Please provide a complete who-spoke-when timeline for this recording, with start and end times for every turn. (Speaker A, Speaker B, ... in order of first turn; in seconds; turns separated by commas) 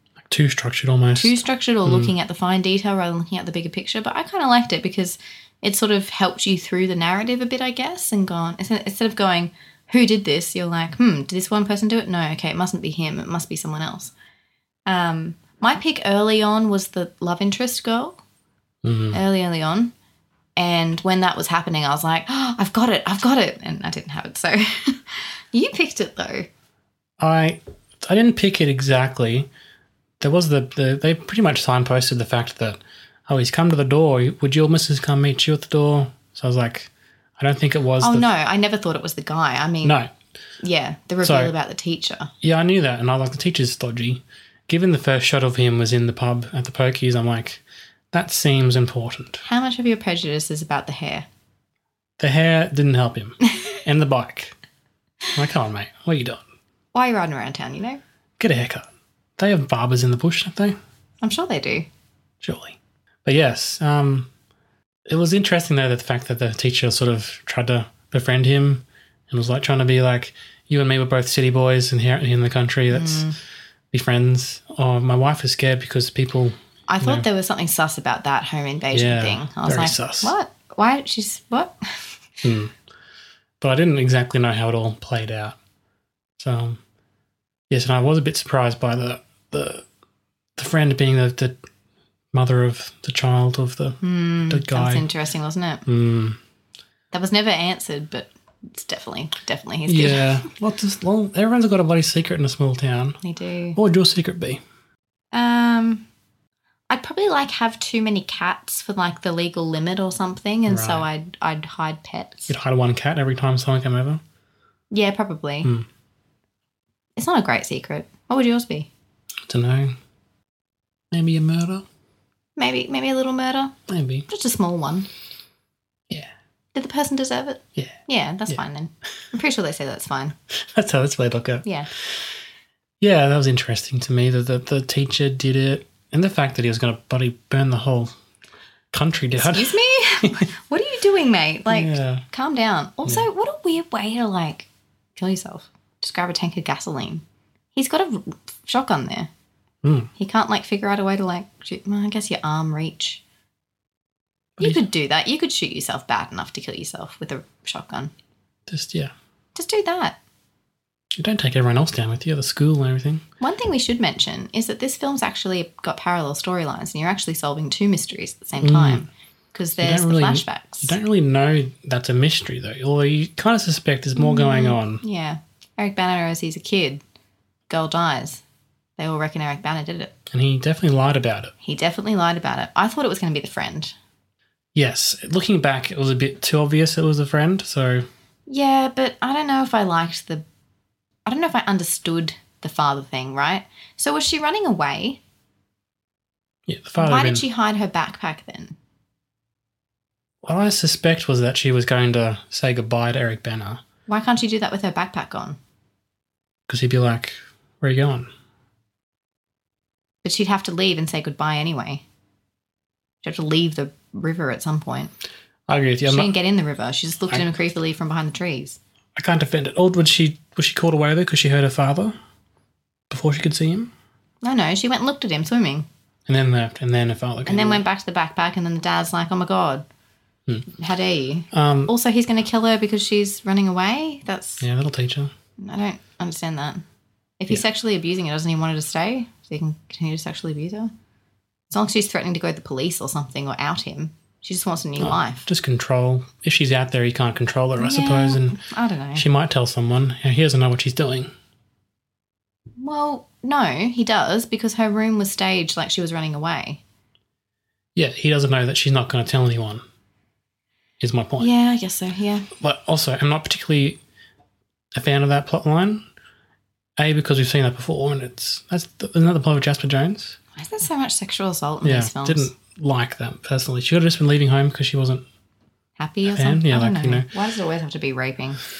Speaker A: 0.3-2.1, Speaker B: 1.2-14.1, Speaker B: 14.9-18.2, Speaker A: 18.8-19.2, Speaker B: 19.1-19.9, Speaker B: 20.6-26.5, Speaker A: 27.2-29.5, Speaker A: 30.2-38.3, Speaker B: 38.0-40.0, Speaker A: 39.8-40.1, Speaker B: 40.6-42.3, Speaker A: 41.2-41.5, Speaker A: 42.4-49.4, Speaker B: 49.4-51.3, Speaker A: 52.2-54.5, Speaker A: 55.3-56.4, Speaker B: 56.9-58.0, Speaker A: 58.4-58.9, Speaker A: 59.4-60.8, Speaker B: 61.2-61.9, Speaker A: 62.4-64.3, Speaker A: 65.1-73.3, Speaker B: 72.9-73.4, Speaker A: 73.9-77.3, Speaker B: 76.9-82.2, Speaker A: 78.9-80.3, Speaker A: 82.4-82.7, Speaker A: 83.6-85.6, Speaker A: 86.4-86.8, Speaker A: 87.7-89.8, Speaker A: 90.6-91.6, Speaker A: 92.3-95.1, Speaker B: 94.0-95.8, Speaker A: 95.9-96.4, Speaker B: 97.1-100.4, Speaker A: 99.9-103.2, Speaker B: 103.2-103.8, Speaker A: 103.8-104.6, Speaker B: 105.3-106.0, Speaker B: 106.9-112.5, Speaker A: 110.7-111.1, Speaker A: 112.5-114.2, Speaker B: 114.9-115.7, Speaker B: 117.2-118.9, Speaker A: 119.5-120.0, Speaker A: 121.1-121.8, Speaker B: 122.6-123.8, Speaker A: 123.9-124.3, Speaker B: 124.3-125.1, Speaker B: 126.7-130.3, Speaker A: 127.8-128.6, Speaker A: 130.7-131.7, Speaker B: 131.6-131.9, Speaker A: 133.0-138.1, Speaker A: 138.9-140.4, Speaker B: 139.4-149.3, Speaker A: 141.7-142.2, Speaker A: 149.8-150.1, Speaker B: 150.2-153.2, Speaker A: 154.6-154.8, Speaker B: 154.6-158.1, Speaker A: 158.7-159.1, Speaker B: 159.6-160.2, Speaker A: 161.2-163.2, Speaker B: 163.4-171.0, Speaker A: 168.6-169.1, Speaker A: 169.8-175.0, Speaker B: 174.2-177.0, Speaker B: 177.7-178.4, Speaker B: 179.0-180.2, Speaker A: 180.3-181.5, Speaker B: 181.6-183.9, Speaker A: 184.8-188.1, Speaker B: 188.5-190.4, Speaker B: 191.3-195.2, Speaker A: 196.7-197.5, Speaker B: 197.0-198.8, Speaker A: 200.4-203.8, Speaker B: 204.1-205.6, Speaker A: 206.7-208.3, Speaker B: 210.2-212.0, Speaker B: 213.2-215.1, Speaker A: 215.7-216.3, Speaker B: 216.1-218.8, Speaker A: 219.2-222.2, Speaker A: 223.1-223.9, Speaker B: 224.4-225.9, Speaker A: 226.3-227.8, Speaker B: 227.5-229.8, Speaker B: 230.7-234.7, Speaker A: 231.5-231.9, Speaker A: 234.6-235.3, Speaker B: 235.6-236.8, Speaker B: 237.4-240.9, Speaker B: 241.7-245.5, Speaker A: 245.0-248.6, Speaker B: 247.8-249.3, Speaker A: 249.2-251.3, Speaker B: 252.8-256.8, Speaker A: 257.9-259.8, Speaker A: 261.0-261.5, Speaker B: 261.4-262.5, Speaker A: 262.6-264.0, Speaker A: 264.9-266.0, Speaker A: 267.0-270.4, Speaker B: 270.6-272.5, Speaker A: 271.8-275.2, Speaker B: 276.0-278.6, Speaker A: 276.2-277.3